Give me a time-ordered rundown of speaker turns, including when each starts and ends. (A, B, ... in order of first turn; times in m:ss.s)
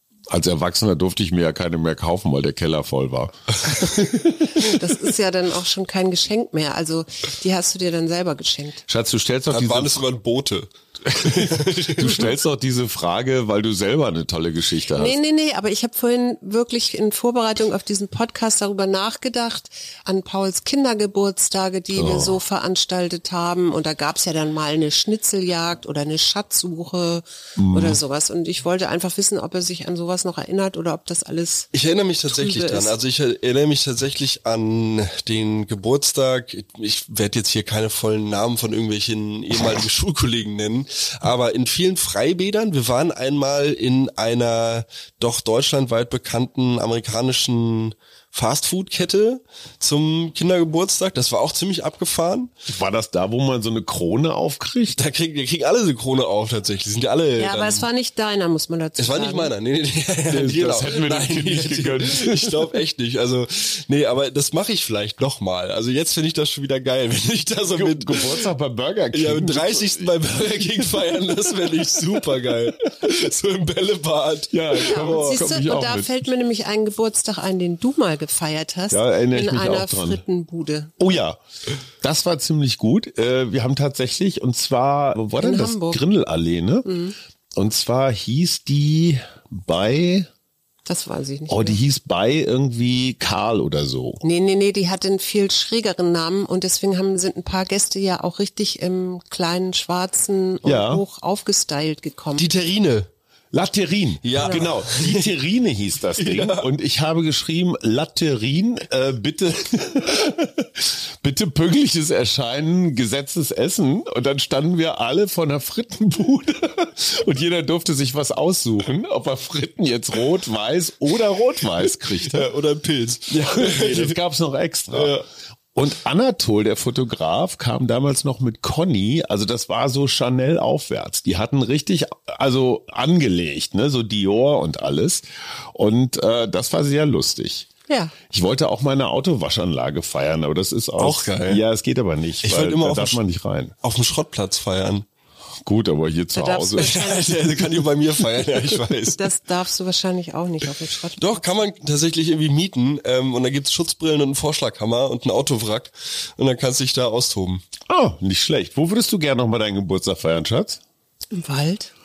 0:00.3-0:04.8 A
0:04.6-0:08.8 B
0:08.9-0:10.0 A
0:09.5-0:12.3 C
0:11.1-0:15.2 A
0:15.0-0:31.7 B
0:21.9-0:22.4 A
0:27.6-0:28.0 A
0:31.7-0:52.5 C
0:32.3-0:32.9 B
0:52.7-0:55.0 A
0:55.0-0:57.9 C
0:57.4-0:59.5 B
0:59.0-1:08.4 C
1:00.3-1:02.7 A
1:07.7-1:10.1 A
1:09.1-1:15.4 C
1:14.5-1:16.3 A
1:14.8-1:20.9 B
1:18.9-1:20.2 A
1:21.0-1:21.4 A
1:22.0-1:26.9 A
1:25.4-1:26.0 B
1:26.8-1:27.2 B
1:27.6-1:30.3 A
1:30.8-1:31.8 B
1:31.5-1:34.2 A
1:34.2-1:42.5 B
1:40.6-1:41.0 A
1:42.4-1:43.1 C
1:43.5-2:02.5 A
1:44.2-1:45.3 C
1:44.4-1:44.7 B
1:46.2-1:46.7 C
2:02.2-2:04.2 C
2:03.3-2:05.2 A
2:04.9-2:05.2 C
2:05.7-2:17.7 A
2:17.9-2:18.1 B
2:18.3-2:23.7 A
2:21.0-2:21.6 C
2:22.4-2:23.2 C
2:23.8-2:25.0 C
2:25.6-2:27.0 A
2:26.3-2:27.5 B
2:26.8-2:29.2 C
2:29.2-2:31.4 B
2:31.2-2:37.6 C
2:37.9-2:40.8 A
2:41.3-2:41.9 B